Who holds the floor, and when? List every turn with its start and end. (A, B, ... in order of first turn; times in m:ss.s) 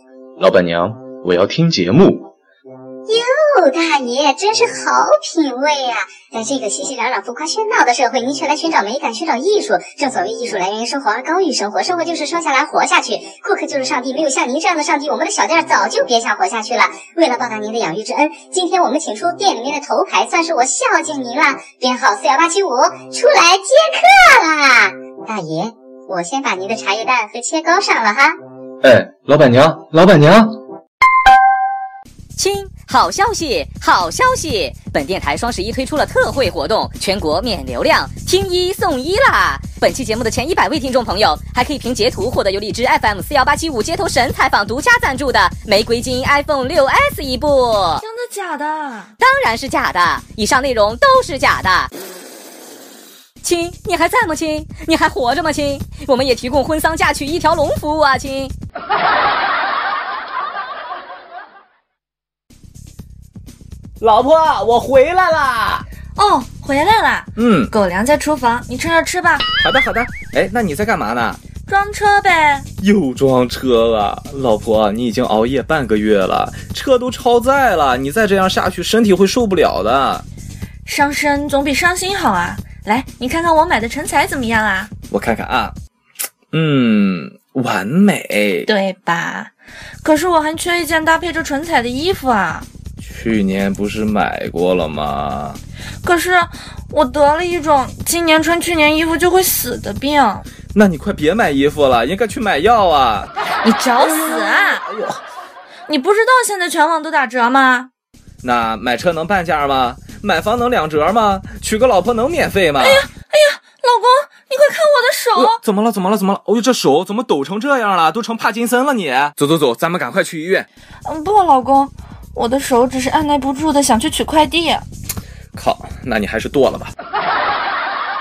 0:00.4-0:02.3 A
0:03.1-0:28.4 B
0:28.8-0:30.6 A
0:32.4-0:48.0 C
0:48.0-0:49.2 D
0:49.2-0:51.9 C
0:53.4-0:58.5 C
1:04.0-1:05.8 E
1:06.2-1:09.5 D
1:07.4-1:07.7 E
1:09.6-1:11.4 E
1:11.7-1:12.7 D
1:12.8-1:20.2 E
1:20.9-1:24.9 D
1:25.1-1:25.8 E
1:26.5-1:28.7 E
1:28.7-1:32.7 D
1:33.0-1:35.6 E
1:36.0-1:40.5 D
1:40.7-1:43.3 E
1:43.6-1:44.8 D
1:44.0-1:45.2 E
1:45.9-1:47.9 D
1:48.4-1:53.1 E
1:52.8-1:55.6 D
1:55.4-2:00.7 E
2:01.0-2:04.8 D
2:05.5-2:06.9 E